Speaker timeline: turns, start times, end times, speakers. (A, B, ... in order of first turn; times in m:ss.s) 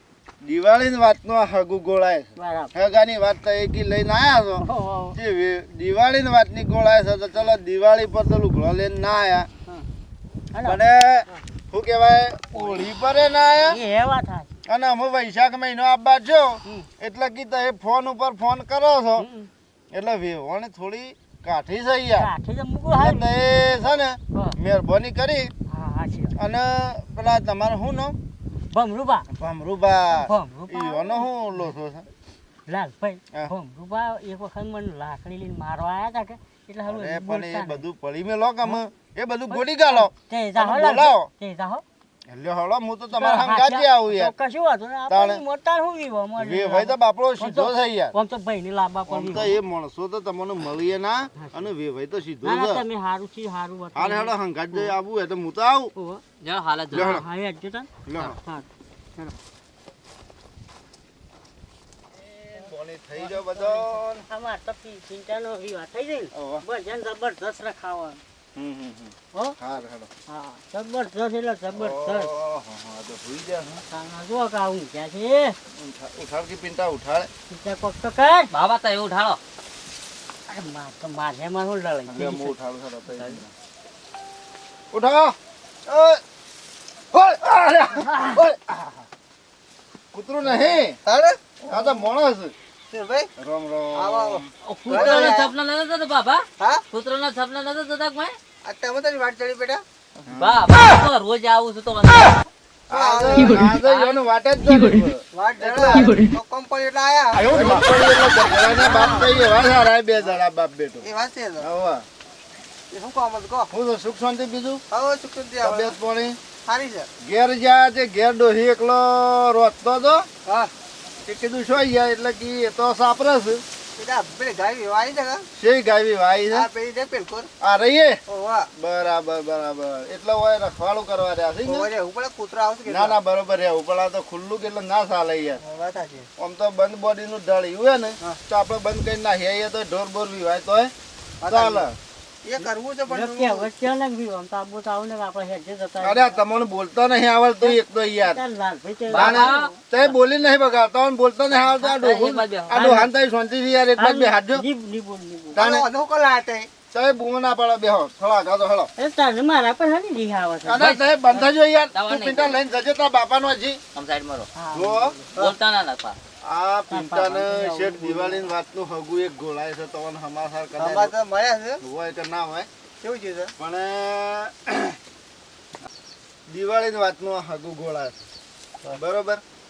0:00.4-0:09.5 A
0:02.4-0:02.7 B
0:04.6-0:05.2 B
0:10.5-0:11.4 B
0:10.6-0:13.8 A
0:13.6-0:14.5 B
0:14.7-0:19.3 A
0:19.2-0:19.5 B
0:19.9-0:22.3 A
0:22.2-0:23.3 B
0:22.9-0:25.5 A
0:25.7-0:26.4 B
0:26.4-0:28.2 A
0:28.7-0:29.3 B
0:29.3-0:32.1 A
0:30.1-0:31.3 B
0:32.7-0:37.8 B
0:36.8-0:41.3 A
0:39.5-0:41.8 B
0:42.3-0:44.3 A
0:43.1-0:49.6 B
0:45.1-0:45.4 A
0:46.4-0:48.1 A
0:49.1-0:52.8 A
0:51.4-0:51.7 B
0:52.4-0:54.9 B
0:53.9-0:55.9 A
0:55.9-0:56.2 B
0:56.4-0:57.2 C
0:56.9-0:57.2 A
0:56.9-0:59.4 B
0:58.0-0:58.4 A
1:02.2-1:04.2 A
1:03.2-1:08.2 B
1:06.3-1:06.6 A
1:08.5-1:10.1 A
1:10.3-1:12.3 B
1:11.7-1:13.8 A
1:13.9-1:15.6 B
1:15.7-1:17.3 A
1:17.5-1:18.5 B
1:18.5-1:19.4 C
1:20.5-1:22.5 B
1:22.1-1:23.5 A
1:23.1-1:23.4 C
1:24.9-1:26.2 A
1:27.1-1:29.0 A
1:30.1-1:31.0 A
1:31.0-1:31.9 D
1:31.7-1:32.5 A
1:32.9-1:33.3 D
1:33.4-1:35.0 A
1:33.9-1:35.5 D
1:34.6-1:38.4 C
1:36.6-1:36.8 D
1:38.6-1:39.8 D
1:40.2-1:40.7 A
1:40.4-1:42.4 C
1:42.9-1:43.6 D
1:42.9-1:46.1 A
1:43.3-1:44.2 C
1:45.3-1:47.9 D
1:47.4-1:51.1 A
1:48.8-1:49.4 D
1:51.0-1:51.7 D
1:51.6-1:52.0 A
1:52.9-1:53.7 D
1:53.7-1:54.8 A
1:54.9-1:56.0 D
1:55.6-1:56.4 A
1:56.6-1:57.1 D
1:57.2-2:00.3 A
2:00.4-2:00.7 D
2:01.2-2:03.6 A
2:04.0-2:05.5 D
2:05.6-2:06.7 A
2:06.5-2:07.5 D
2:07.6-2:08.2 A
2:08.3-2:08.7 D
2:08.8-2:11.9 A
2:11.6-2:13.2 D
2:12.8-2:15.6 A
2:15.6-2:16.3 D
2:16.4-2:20.9 A
2:21.4-2:21.9 D
2:21.5-2:22.0 A
2:22.4-2:23.7 D
2:23.1-2:26.4 B
2:26.0-2:28.4 A
2:28.3-2:29.7 B
2:29.1-2:34.6 A
2:29.1-2:29.7 C
2:31.8-2:32.7 C
2:32.7-2:33.1 B
2:34.0-2:35.6 B
2:35.5-2:36.7 D
2:35.6-2:35.9 A
2:36.9-2:38.9 A
2:39.0-2:40.8 B
2:40.6-2:43.8 A
2:40.8-2:42.6 C
2:43.9-2:44.5 C
2:44.6-2:45.2 B
2:44.7-2:45.1 A
2:45.4-2:46.2 C
2:46.4-2:51.1 A
2:46.9-2:48.4 B
2:50.8-2:51.8 D
2:51.8-2:52.7 A
2:53.0-2:53.5 D
2:53.6-2:55.0 A
2:56.5-2:58.2 A
2:58.9-2:59.4 A